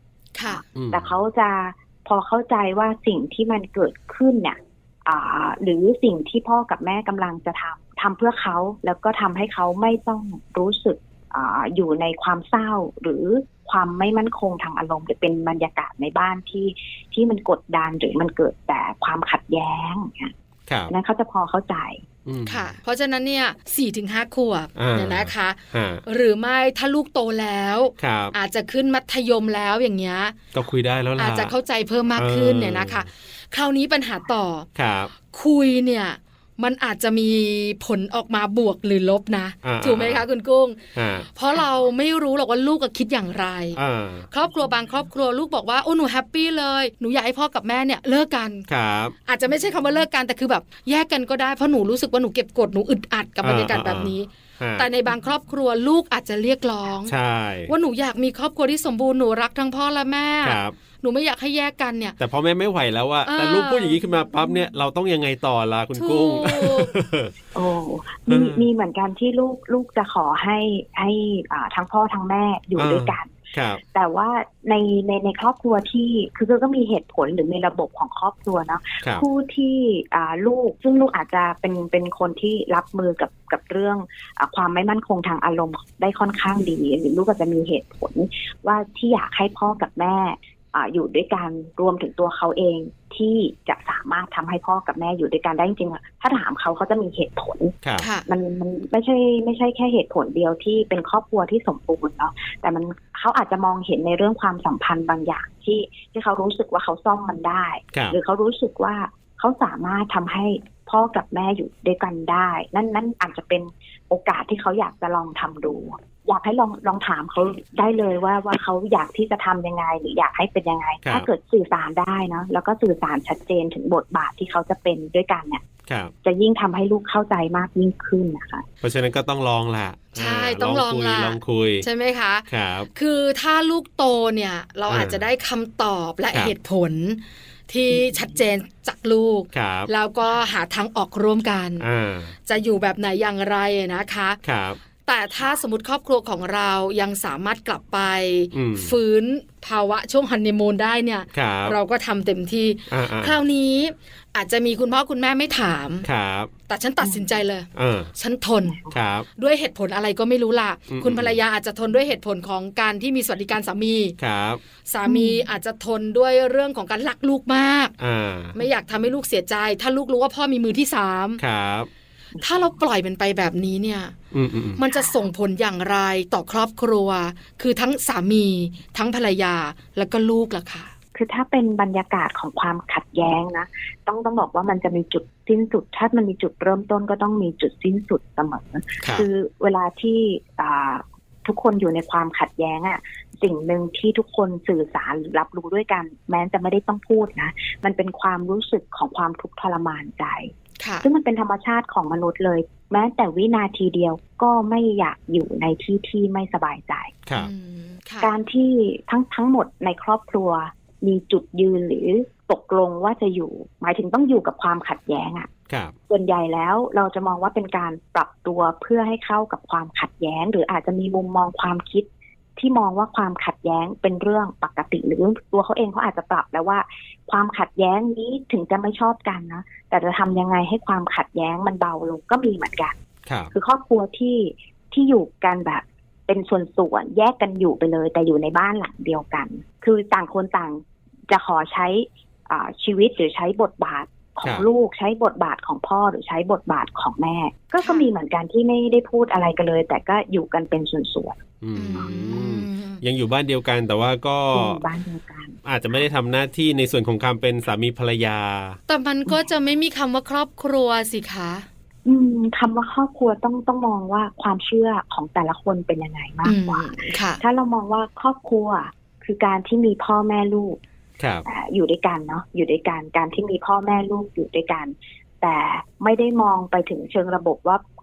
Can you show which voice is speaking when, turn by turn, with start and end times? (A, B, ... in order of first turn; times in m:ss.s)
0:00.3-0:00.6 A
0:00.4-0:20.3 B
0:00.8-0:01.1 C
0:20.7-0:20.9 C
0:20.9-0:22.0 B
0:22.2-0:22.7 C
0:22.4-0:30.4 A
0:24.8-0:26.0 C
0:28.0-0:28.3 C
0:30.5-0:31.5 C
0:31.2-0:34.7 A
0:32.2-0:33.1 C
0:34.8-0:35.1 C
0:35.3-0:40.8 A
0:39.6-0:40.2 C
0:40.9-0:41.3 C
0:41.3-0:43.8 A
0:43.8-0:44.3 C
0:44.3-0:48.6 A
0:48.7-0:49.1 C
0:49.2-0:57.1 A
0:53.4-0:54.9 C
0:57.0-0:57.7 C
0:57.7-1:02.1 A
1:00.4-1:00.7 C
1:02.2-1:07.3 C
1:03.2-1:04.0 A
1:05.9-1:06.9 A
1:07.5-1:37.7 B
1:08.3-1:08.7 C
1:12.8-1:13.8 C
1:38.0-1:38.2 A
1:38.3-2:05.6 B
2:05.9-2:06.1 C
2:06.2-2:08.6 B
2:08.8-2:11.8 C
2:10.1-2:21.8 A
2:12.5-2:12.9 C
2:14.9-2:15.2 C
2:19.5-2:19.9 C
2:21.8-2:22.3 C
2:22.4-2:24.4 A
2:24.4-2:24.8 C
2:25.0-2:36.0 A
2:28.5-2:28.9 C
2:31.3-2:31.8 C
2:32.9-2:33.4 C
2:36.0-2:36.5 C
2:36.7-2:38.8 A
2:37.0-2:37.2 B
2:37.7-2:38.1 C
2:38.6-2:39.0 B
2:38.9-2:39.2 C
2:39.4-2:44.1 A
2:40.9-2:41.4 C
2:44.2-2:44.6 C
2:44.8-2:47.9 A
2:45.0-2:45.4 B
2:48.0-2:48.5 C
2:48.5-2:51.4 A
2:51.4-2:51.9 C
2:52.4-2:54.1 A
2:54.3-2:54.8 C
2:54.8-3:00.9 A
2:54.9-2:55.2 B
3:01.1-3:27.2 B
3:09.0-3:09.3 C
3:20.8-3:21.1 A
3:27.4-3:28.3 A
3:28.2-3:35.5 B
3:35.7-3:35.9 C
3:36.1-3:52.9 B
3:53.2-3:53.5 C
3:53.5-4:11.4 B
4:07.8-4:08.1 A
4:11.6-4:14.8 C
4:11.7-4:13.0 A
4:14.5-4:16.0 B
4:15.6-4:18.8 C
4:18.9-4:21.7 A
4:22.0-4:30.8 B
4:26.4-4:27.4 A
4:31.2-4:31.4 C
4:31.4-4:37.8 B